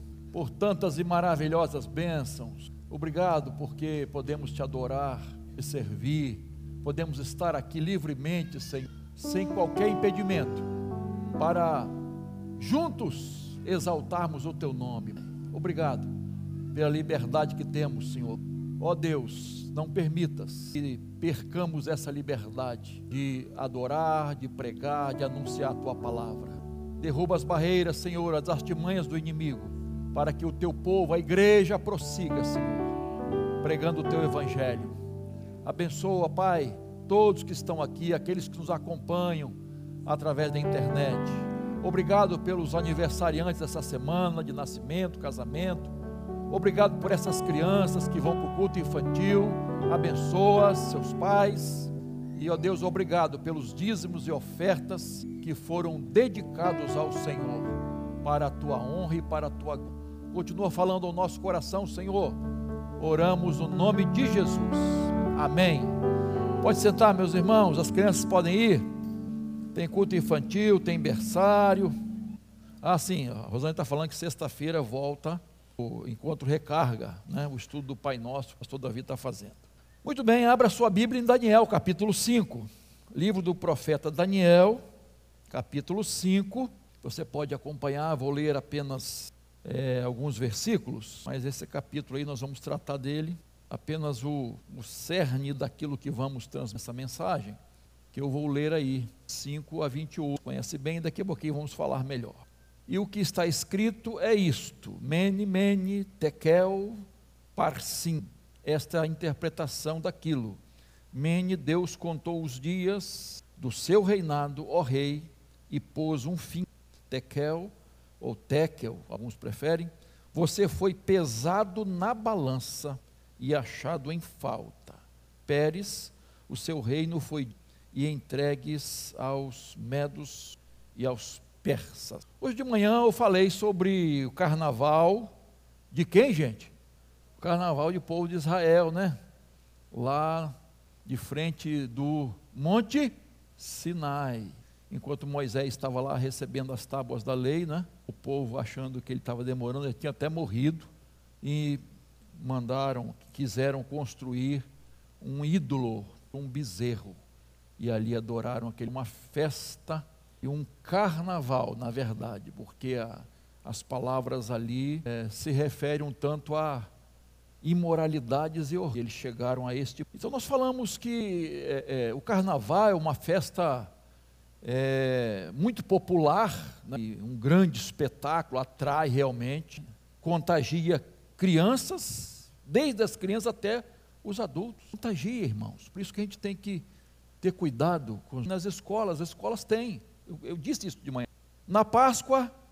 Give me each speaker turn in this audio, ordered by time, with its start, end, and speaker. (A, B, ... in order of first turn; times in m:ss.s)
0:00.3-0:10.7 A
0:11.4-0:11.9 A
0:12.6-0:16.1 A
0:16.7-0:33.0 A
0:33.6-0:35.0 A
0:35.6-0:45.9 A
0:46.5-1:02.4 A
1:03.0-1:06.0 A
1:06.6-1:08.9 A
1:09.7-1:11.9 A
1:12.8-1:24.8 A
1:25.5-1:37.6 A
1:38.1-1:47.0 A
1:47.6-1:50.6 A
1:51.1-2:15.3 A
2:15.9-2:16.7 A
2:17.4-2:19.2 A
2:19.9-2:30.9 A
2:31.4-2:31.8 A
2:32.3-2:34.6 A
2:35.2-2:37.2 A
2:37.8-2:46.9 A
2:47.6-2:53.9 A
2:54.6-3:06.9 A
3:07.4-3:12.5 A